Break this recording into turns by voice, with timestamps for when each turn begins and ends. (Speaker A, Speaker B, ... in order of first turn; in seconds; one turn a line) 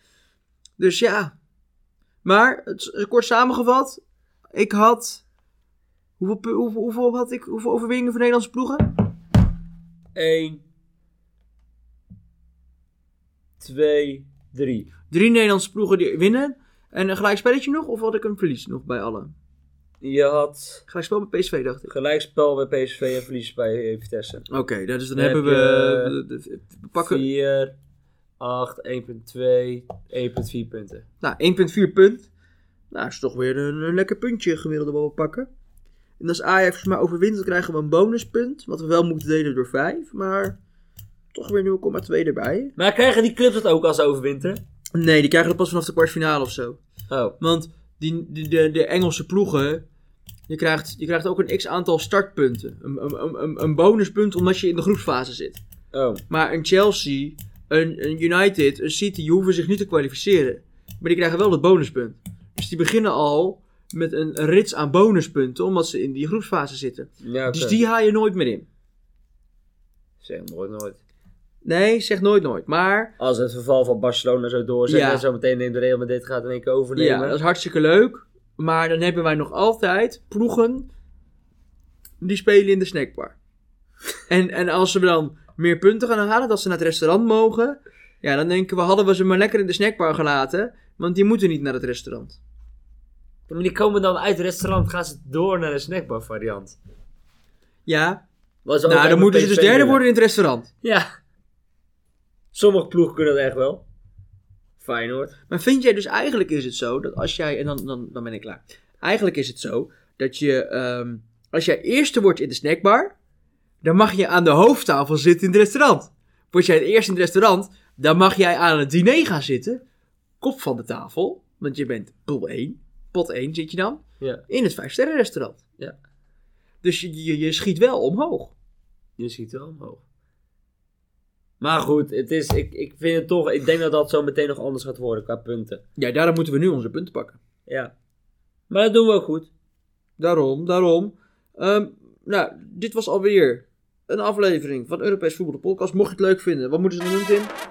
Speaker A: 0.8-1.3
Speaker A: 2.2-4.0
Speaker A: 4.5-5.2
Speaker A: 6.2-8.9
Speaker B: 10.1-10.6
Speaker B: 13.6-14.9
Speaker A: 15.1-19.3
Speaker B: 20.0-20.8
Speaker A: 20.9-21.9
Speaker B: 21.9-24.4
Speaker A: 24.5-27.2
Speaker B: 25.1-26.1
Speaker B: 27.0-27.7
Speaker B: 28.4-31.1
Speaker A: 31.2-32.3
Speaker A: 32.9-35.5
Speaker A: 36.2-40.6
Speaker A: 41.3-42.7
Speaker B: 42.8-44.6
Speaker A: 44.9-46.8
Speaker B: 47.1-47.4
Speaker A: 47.4-49.8
Speaker A: 50.5-55.6
Speaker B: 55.9-56.2
Speaker A: 56.3-68.7
Speaker B: 67.2-67.8
Speaker B: 70.2-71.0
Speaker A: 71.6-73.1
Speaker B: 73.2-77.4
Speaker A: 74.9-75.2
Speaker A: 77.0-80.9
Speaker A: 82.2-83.3
Speaker A: 84.3-92.4
Speaker B: 93.5-96.8
Speaker A: 97.8-98.2
Speaker B: 98.6-100.0
Speaker A: 98.8-100.7
Speaker B: 100.8-101.1
Speaker B: 102.5-103.8
Speaker B: 104.8-105.3
Speaker A: 105.5-113.1
Speaker A: 113.8-119.8
Speaker A: 120.4-125.6
Speaker A: 126.8-128.5
Speaker B: 129.2-130.0
Speaker B: 131.6-135.8
Speaker A: 136.0-137.4
Speaker B: 137.7-137.9
Speaker B: 138.7-139.5
Speaker A: 140.2-147.5